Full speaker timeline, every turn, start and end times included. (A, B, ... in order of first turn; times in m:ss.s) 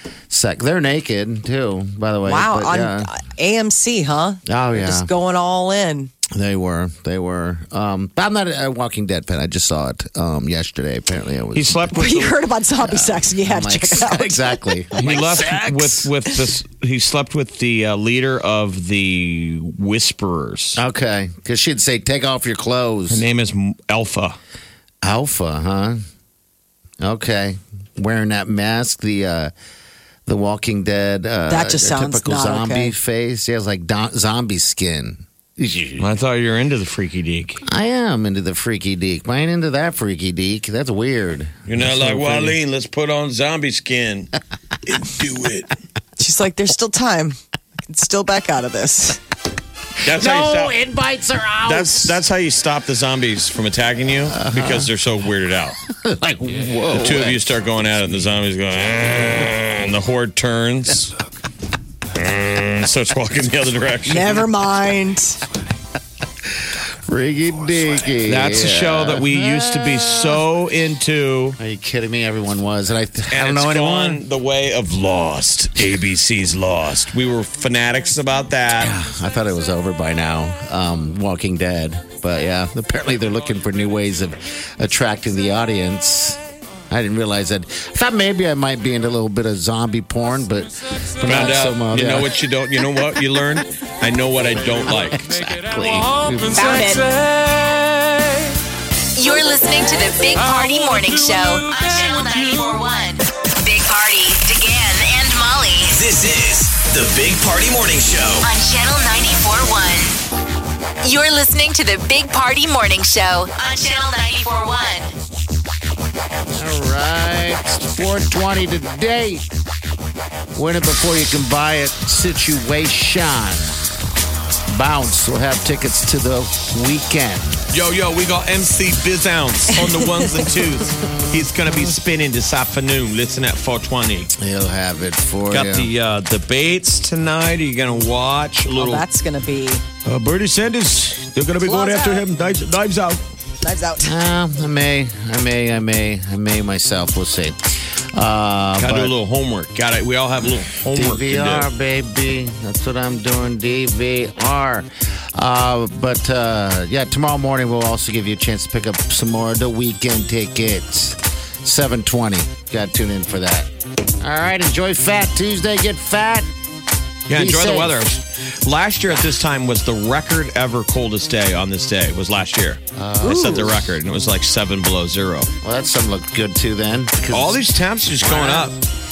0:00.3-0:03.1 A
0:02.2-0:06.1 B
0:04.4-0:05.1 A
0:06.3-0:12.1 A
0:11.5-0:12.4 C
0:11.9-0:15.1 B
0:12.8-0:16.0 A
0:15.0-0:20.8 C
0:20.8-0:23.2 A
0:23.1-0:24.4 C
0:25.0-0:26.0 A
0:27.0-0:29.5 A
0:30.2-0:36.1 A
0:31.5-0:32.9 B
0:36.0-0:37.6 C
0:37.6-0:42.6 A
0:41.7-0:44.3 C
0:44.8-0:45.7 C
0:46.2-0:49.2 B
0:50.0-0:50.8 C
0:50.0-0:52.2 A
0:51.6-0:55.8 C
0:54.3-0:54.9 A
0:55.9-0:57.4 A
0:56.9-1:01.1 C
1:02.1-1:04.5 C
1:04.1-1:05.4 B
1:07.0-1:10.4 A
1:08.2-1:11.6 C
1:11.6-1:14.2 A
1:13.3-1:18.9 C
1:18.7-1:32.3 A
1:31.2-1:35.4 C
1:34.8-1:36.8 A
1:36.5-1:37.0 B
1:39.2-1:46.0 D
1:45.9-1:48.4 E
1:48.4-1:50.2 D
1:51.0-1:55.1 D
1:56.5-1:59.5 A
2:00.5-2:03.8 A
2:04.7-2:07.5 A
2:07.7-2:14.3 C
2:11.3-2:11.9 A
2:14.4-2:15.9 A
2:15.5-2:19.0 C
2:18.7-2:19.8 B
2:20.0-2:23.2 C
2:21.6-2:22.2 B
2:23.6-2:24.2 B
2:24.0-2:29.1 A
2:28.8-2:31.7 C
2:30.9-2:43.7 A
2:44.2-2:46.5 A
2:47.3-2:55.5 C
2:47.3-2:48.0 A
2:53.0-2:53.9 A
2:53.2-2:53.6 B
2:55.6-2:57.6 A
2:57.3-2:58.8 C
2:58.2-2:58.7 A